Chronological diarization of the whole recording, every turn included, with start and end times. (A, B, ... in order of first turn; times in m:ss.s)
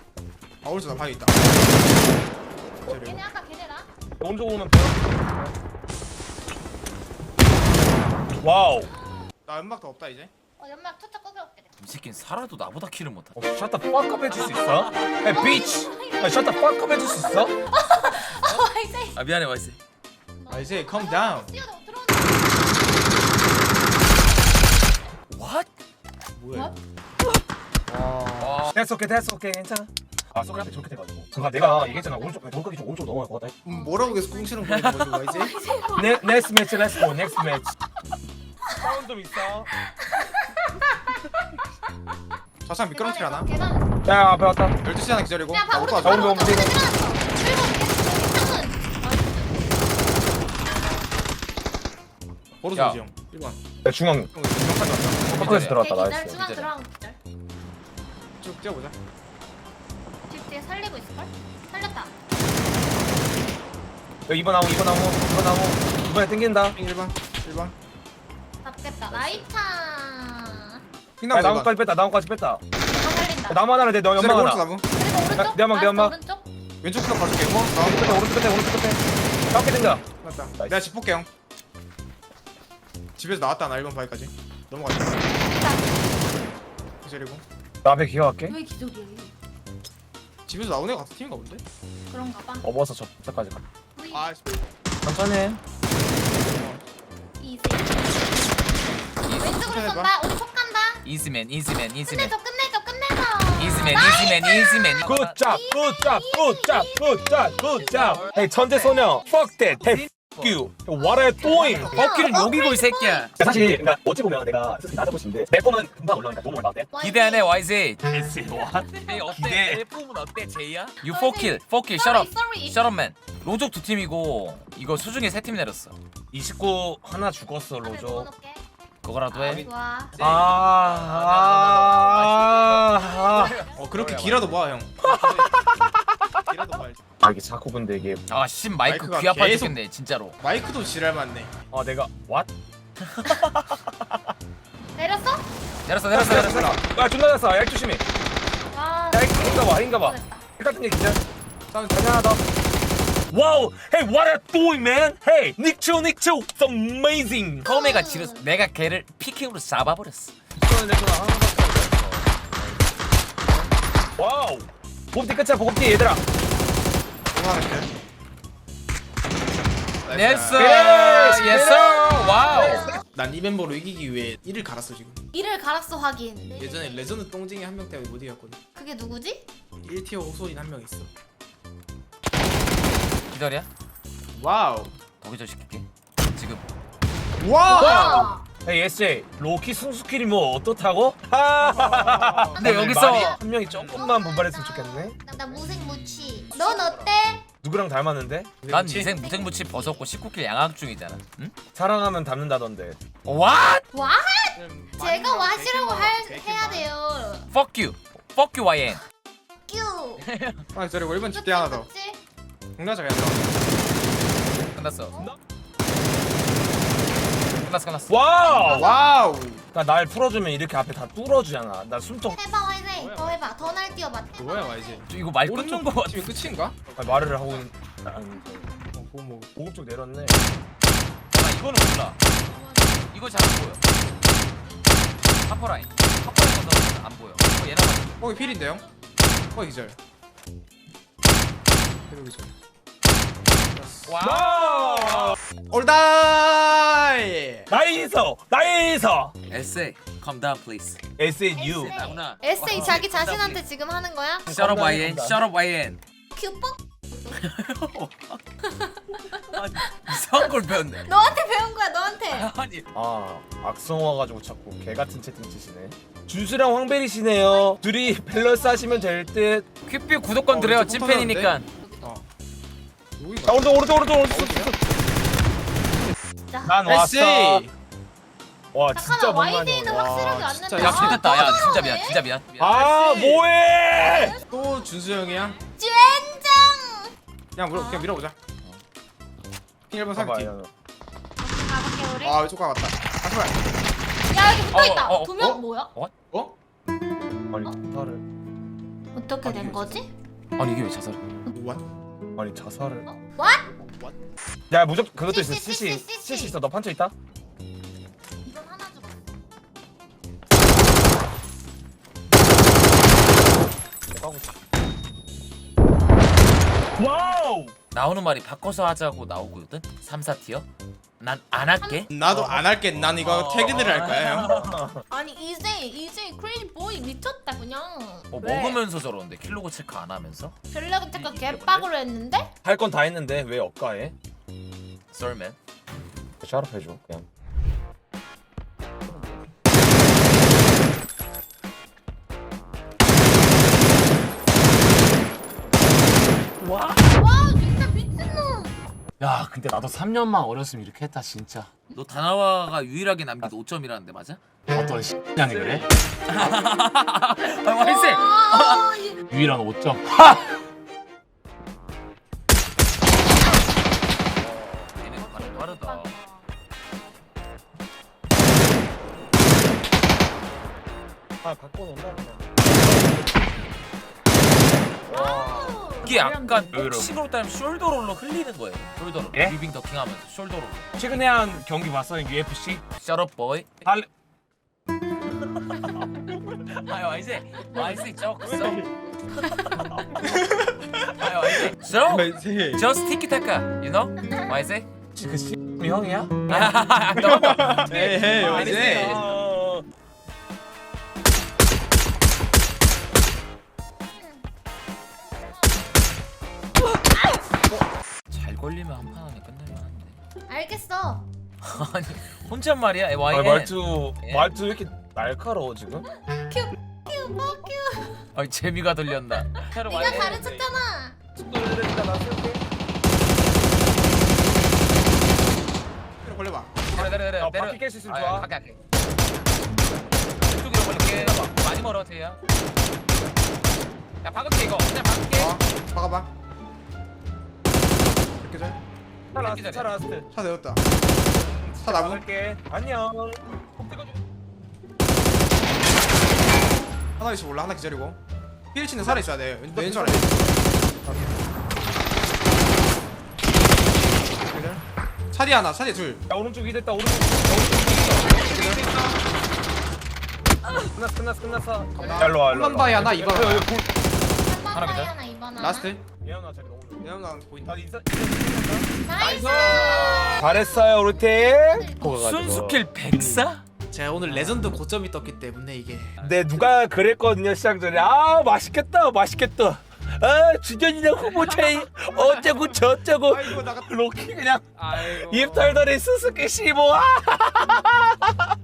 0:00.6-0:01.6 A
0:02.8-0:03.2 A
0:02.9-0:03.9 B
0:04.2-0:05.6 C
0:08.3-0:08.9 C
0:08.9-0:09.3 B
0:09.4-0:10.3 A
0:10.6-0:11.7 B
0:11.8-0:13.3 D
0:13.4-0:17.5 C
0:14.3-0:15.4 D
0:15.0-0:19.2 B
0:18.3-0:19.8 D
0:20.4-0:22.7 B
0:20.5-0:21.5 A
0:25.3-0:25.7 D
0:26.3-0:26.7 A
0:27.9-0:28.7 A
0:28.4-0:28.7 D
0:28.7-0:33.6 C
0:31.6-0:32.4 B
0:33.6-0:35.5 A
0:33.6-0:34.6 B
0:34.6-0:35.1 D
0:35.2-0:37.6 B
0:35.9-0:37.7 C
0:38.8-0:39.7 C
0:40.0-0:41.7 B
0:42.6-0:43.5 A
0:42.9-0:43.9 B
0:44.0-0:44.8 C
0:44.8-0:46.6 A
0:45.5-0:49.8 B
0:45.8-0:46.8 C
0:52.6-0:53.6 A
0:52.7-0:53.0 D
0:53.8-0:54.3 C
0:54.3-0:55.2 A
0:55.2-0:56.7 D
0:55.3-0:56.4 C
0:55.8-0:57.2 B
0:58.4-0:59.0 A
1:00.3-1:02.1 B
1:04.3-1:06.8 C
1:06.7-1:07.7 A
1:08.6-1:10.8 B
1:09.1-1:09.4 C
1:11.2-1:11.7 A
1:11.3-1:12.6 C
1:12.9-1:13.6 B
1:13.5-1:14.6 C
1:14.1-1:14.8 A
1:14.9-1:16.4 B
1:15.3-1:16.2 C
1:16.8-1:18.2 A
1:17.7-1:20.0 C
1:20.2-1:21.3 A
1:23.2-1:25.3 A
1:25.5-1:25.8 B
1:27.0-1:27.4 A
1:27.8-1:28.6 C
1:28.5-1:29.3 B
1:30.4-1:31.6 A
1:32.1-1:32.7 B
1:32.6-1:33.6 C
1:34.0-1:34.4 B
1:34.1-1:34.6 A
1:35.0-1:35.6 C
1:36.3-1:36.8 A
1:37.4-1:38.6 B
1:39.2-1:39.5 D
1:39.3-1:41.0 B
1:39.6-1:40.1 A
1:41.0-1:42.3 D
1:42.1-1:49.5 B
1:43.6-1:45.4 D
1:45.0-1:52.0 C
1:47.8-1:49.0 D
1:49.7-1:50.6 D
1:51.0-1:53.3 B
1:51.5-1:51.9 A
1:51.9-1:53.3 D
1:53.4-1:56.9 C
1:56.9-1:57.6 B
1:57.0-1:58.0 D
1:58.1-1:59.8 C
1:58.9-2:06.0 D
2:01.0-2:02.9 B
2:06.3-2:08.3 C
2:07.8-2:08.6 B
2:09.0-2:14.6 D
2:09.3-2:09.6 A
2:09.4-2:10.1 B
2:10.2-2:13.6 C
2:11.8-2:13.8 B
2:13.7-2:15.6 A
2:15.0-2:15.9 C
2:16.4-2:17.0 A
2:17.2-2:18.2 C
2:18.3-2:20.4 D
2:18.8-2:19.8 A
2:20.4-2:21.5 A
2:21.7-2:22.5 C
2:23.2-2:23.8 D
2:25.0-2:25.5 B
2:25.8-2:26.8 D
2:26.1-2:26.8 A
2:26.1-2:28.0 C
2:28.7-2:30.4 B
2:29.1-2:31.2 C
2:31.7-2:32.2 A
2:31.9-2:32.4 C
2:33.3-2:37.7 C
2:37.6-2:38.5 B
2:37.6-2:40.3 D
2:40.6-2:42.9 C
2:43.5-2:46.2 C
2:47.3-2:47.9 A
2:50.0-2:51.0 A
2:50.1-2:52.9 D
2:50.5-2:52.2 C
2:51.6-2:53.0 B
2:52.7-2:55.2 A
2:55.3-2:57.2 B
2:56.6-2:58.6 A
2:58.7-2:59.4 B
2:59.8-3:01.1 A
3:03.3-3:03.7 D
3:04.3-3:05.0 A
3:05.2-3:06.6 D
3:07.4-3:08.3 A
3:07.7-3:08.4 B
3:07.8-3:15.2 C
3:11.6-3:14.0 A
3:12.6-3:13.4 D
3:13.9-3:17.4 B
3:15.5-3:17.1 D
3:17.6-3:18.5 C
3:18.6-3:19.1 A
3:18.7-3:21.5 D
3:19.1-3:20.1 B
3:21.7-3:23.0 C
3:23.2-3:23.8 D
3:23.9-3:27.5 B
3:24.5-3:26.9 A
3:27.5-3:29.0 D
3:29.7-3:30.2 B
3:30.2-3:30.6 D
3:30.7-3:31.9 A
3:31.3-3:32.2 B
3:32.8-3:33.7 A
3:34.7-3:35.2 D
3:37.6-3:38.7 D
3:38.1-3:38.9 C
3:38.6-3:39.2 B
3:38.6-3:39.6 A
3:39.7-3:42.4 C
3:42.3-3:45.0 B
3:42.9-3:47.5 A
3:45.1-3:46.5 D
3:46.9-3:48.7 C
3:48.9-3:49.5 A
3:49.6-3:50.4 C
3:51.3-3:52.2 D
3:52.4-3:53.1 B
3:53.1-3:53.8 D
3:55.4-3:58.3 D
3:58.2-3:58.8 A
3:58.3-3:58.9 B
3:59.5-4:00.0 A
4:02.1-4:02.5 A
4:03.6-4:04.1 A
4:04.0-4:05.4 D
4:04.2-4:05.4 C
4:05.7-4:07.7 A
4:07.7-4:09.3 C
4:09.5-4:11.0 D
4:11.2-4:12.0 C
4:11.5-4:14.5 B
4:11.8-4:13.6 D
4:12.7-4:13.0 C
4:14.5-4:15.4 C
4:14.5-4:16.0 D
4:16.3-4:17.4 B
4:17.3-4:18.4 D
4:18.6-4:20.4 B
4:19.4-4:21.1 D
4:21.0-4:22.5 B
4:22.3-4:22.8 D
4:22.9-4:29.6 C
4:27.5-4:27.8 B
4:28.3-4:29.2 B
4:29.8-4:31.7 D
4:30.5-4:32.3 A
4:31.8-4:32.1 B
4:33.2-4:34.7 A
4:33.4-4:34.8 C
4:36.5-4:36.8 B
4:36.6-4:37.6 C
4:36.9-4:37.7 A
4:38.7-4:40.2 C
4:38.9-4:42.2 B
4:39.9-4:41.7 A
4:40.8-4:43.0 D
4:42.6-4:44.4 C
4:43.0-4:43.4 A
4:44.0-4:47.1 B
4:44.4-4:45.6 A
4:47.5-4:48.3 A
4:47.7-4:48.1 B
4:49.9-4:50.5 A
4:50.1-4:50.7 C
4:51.4-4:52.4 B
4:52.2-4:53.6 A
4:54.3-4:55.9 B
4:54.6-4:56.1 D
4:57.5-4:58.2 C
4:59.1-5:00.1 B
4:59.4-5:00.0 C
5:00.6-5:01.2 D
5:01.5-5:01.8 A
5:02.4-5:03.0 C
5:03.0-5:03.7 B
5:03.7-5:04.2 A
5:04.7-5:07.1 C
5:05.3-5:06.6 B
5:08.4-5:09.2 B
5:14.1-5:14.5 C
5:16.9-5:17.7 C
5:17.9-5:20.7 D
5:21.2-5:22.1 D
5:21.8-5:22.1 B
5:22.1-5:24.5 A
5:22.3-5:23.4 C
5:23.2-5:24.8 D
5:24.4-5:25.0 C
5:25.1-5:28.8 B
5:28.3-5:30.6 D
5:30.7-5:32.5 B
5:31.1-5:31.9 D
5:32.6-5:34.1 C
5:35.1-5:35.6 D
5:36.4-5:37.2 C
5:47.1-5:48.8 B
5:49.2-5:51.7 E
5:51.9-5:54.4 D
5:54.7-5:55.9 E
5:55.4-5:59.0 D
5:57.8-5:59.2 B
5:59.3-6:00.3 E
6:04.4-6:04.8 C
6:05.0-6:06.2 D
6:05.1-6:06.4 B
6:11.4-6:13.7 C
6:15.1-6:17.2 C
6:15.1-6:16.6 B
6:16.0-6:21.5 D
6:20.9-6:22.8 C
6:23.0-6:23.8 D
6:25.7-6:25.9 D
6:26.8-6:28.9 D
6:28.4-6:28.9 C
6:29.5-6:29.8 D
6:29.8-6:30.2 C
6:30.2-6:31.0 A
6:31.1-6:34.9 D
6:32.1-6:32.9 A
6:34.2-6:34.5 B
6:35.1-6:36.7 C
6:36.5-6:39.4 D
6:37.2-6:39.2 A
6:38.2-6:39.8 C
6:44.2-6:44.4 B
6:45.2-6:45.8 B
6:48.3-6:50.2 D
6:50.5-6:51.3 B
6:51.6-6:54.5 D
6:53.3-6:56.0 C
6:56.1-6:58.3 B
6:58.3-7:00.4 D
6:59.6-7:01.2 B
6:59.9-7:00.7 C
7:01.4-7:02.6 C
7:06.2-7:07.0 A
7:06.9-7:08.8 D
7:07.4-7:08.5 C
7:10.4-7:12.4 D
7:10.8-7:11.5 C
7:14.2-7:15.6 D
7:15.3-7:16.3 A
7:18.4-7:18.8 A
7:19.3-7:20.3 C
7:19.3-7:19.9 D
7:20.3-7:20.8 A
7:21.3-7:24.2 C
7:21.8-7:22.2 A
7:27.2-7:28.2 A
7:28.7-7:30.6 A
7:29.0-7:31.3 C
7:34.3-7:36.2 A
7:36.3-7:39.0 C
7:38.0-7:39.1 A
7:38.2-7:39.1 D
7:40.8-7:44.0 C
7:42.0-7:43.7 A
7:44.3-7:45.9 B
7:44.7-7:45.1 D
7:45.6-7:46.0 A
7:46.2-7:53.4 C
7:47.0-7:47.8 A
7:49.0-7:52.2 B
7:49.2-7:50.6 D
7:52.0-7:53.6 D
7:53.9-7:56.1 A
7:54.3-7:54.6 C
7:56.2-7:56.7 D
7:56.2-8:08.5 C
8:01.2-8:02.4 D
8:03.2-8:03.9 A
8:04.9-8:05.8 A